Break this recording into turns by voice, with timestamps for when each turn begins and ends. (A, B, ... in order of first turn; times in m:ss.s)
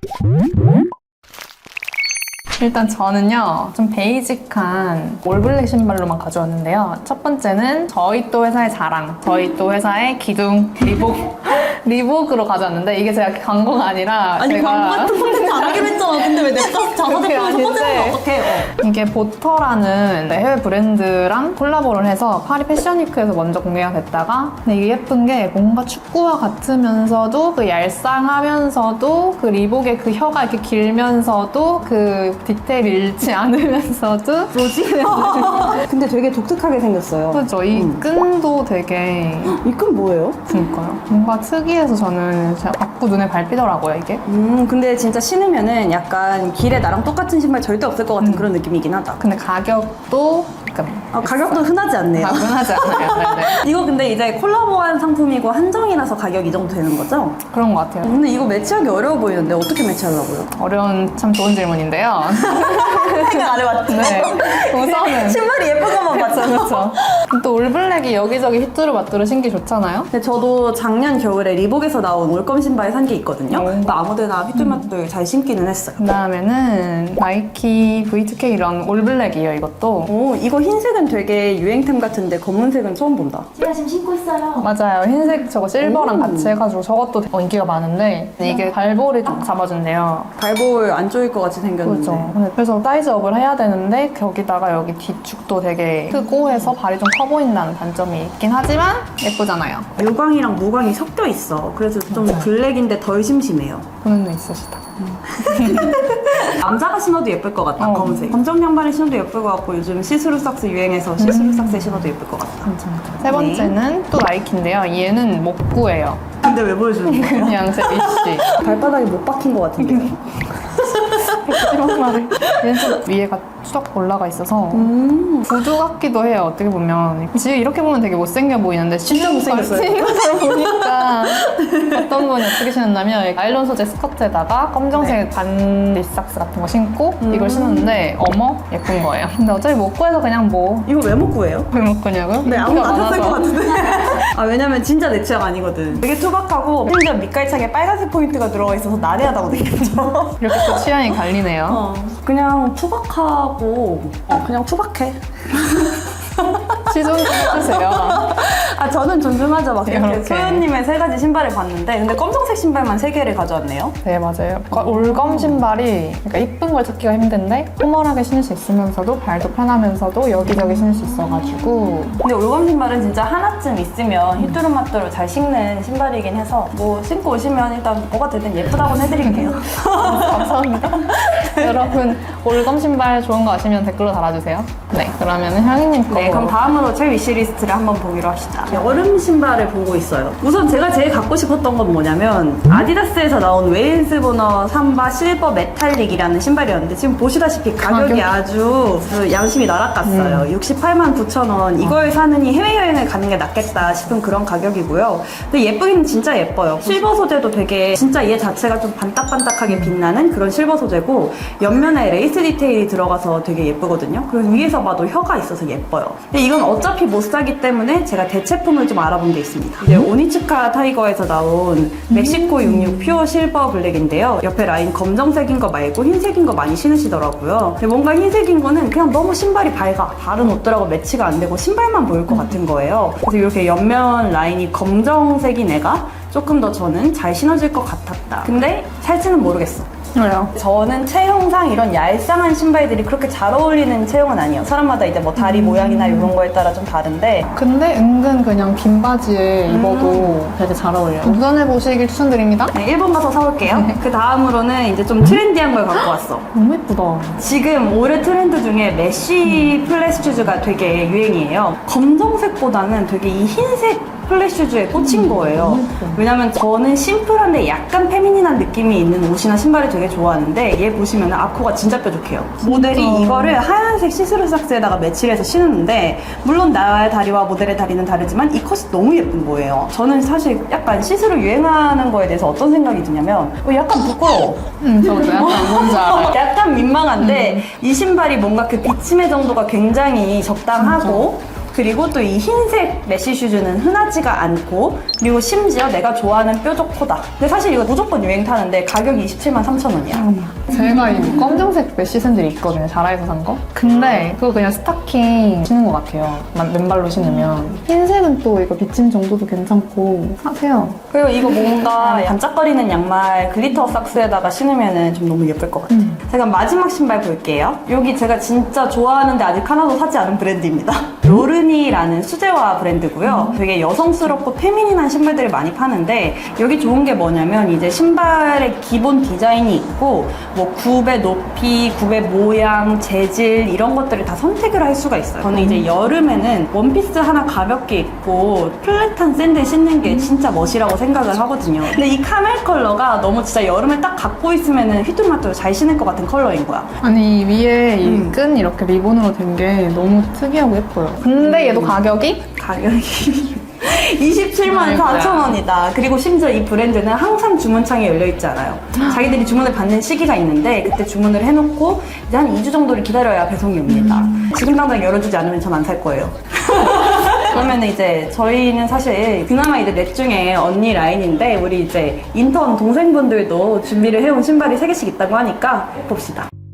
0:02.6-0:16.1 A
0:14.4-0:18.7 B
0:17.0-0:35.8 A
0:34.5-0:38.0 B
0:37.3-0:39.6 A
0:39.4-0:40.6 B
0:40.5-0:44.2 A
0:44.3-0:49.2 B
0:48.2-0:48.5 A
0:49.2-0:53.6 A
0:51.1-0:57.4 B
0:57.5-0:58.2 A
0:58.0-1:00.5 B
1:00.6-1:10.1 A
1:02.2-1:07.2 B
1:10.1-1:16.0 B
1:13.5-1:14.0 A
1:14.6-1:14.9 A
1:16.0-1:20.1 A
1:20.1-1:23.5 B
1:23.6-1:24.7 C
1:24.6-1:30.3 A
1:25.8-1:26.6 B
1:30.4-1:32.4 B
1:31.8-1:39.9 A
1:40.0-1:43.9 B
1:42.1-1:42.5 A
1:44.0-1:46.3 A
1:45.3-1:52.7 B
1:47.8-1:48.4 A
1:51.2-1:56.2 A
1:53.2-1:53.7 B
1:56.4-2:03.0 B
1:57.1-1:58.5 A
1:59.8-2:00.1 A
2:01.3-2:04.9 A
2:04.7-2:05.5 B
2:05.4-2:20.9 A
2:09.1-2:12.6 B
2:17.2-2:18.0 B
2:20.8-2:21.7 B
2:21.7-2:23.8 A
2:22.4-2:44.0 B
2:30.4-2:31.8 A
2:36.8-2:38.3 A
2:39.8-2:40.7 A
2:44.0-2:52.2 A
2:44.7-2:45.6 B
2:50.5-2:51.6 B
2:52.2-3:02.0 B
2:59.2-3:06.7 A
3:06.1-3:59.9 B
3:17.8-3:18.3 A
3:20.0-3:20.5 A
3:42.1-3:43.2 A
4:00.2-4:00.5 A
4:00.6-4:07.5 B
4:05.4-4:06.3 A
4:07.5-4:12.7 A
4:09.7-4:10.4 B
4:12.7-4:16.5 B
4:13.6-4:14.0 A
4:16.5-4:17.4 A
4:17.4-5:00.3 B
4:25.0-4:26.2 C
4:32.6-4:33.6 A
4:44.8-4:46.4 A
4:47.2-4:47.6 A
4:50.8-4:51.3 A
5:00.1-5:11.0 A
5:03.9-5:04.3 B
5:07.3-5:07.8 B
5:11.1-5:46.9 B
5:11.6-5:12.4 A
5:15.9-5:16.2 A
5:23.3-5:23.6 A
5:47.0-5:52.5 A
5:48.0-5:48.4 B
5:51.4-5:52.0 B
5:52.6-6:16.5 B
5:54.7-5:55.6 A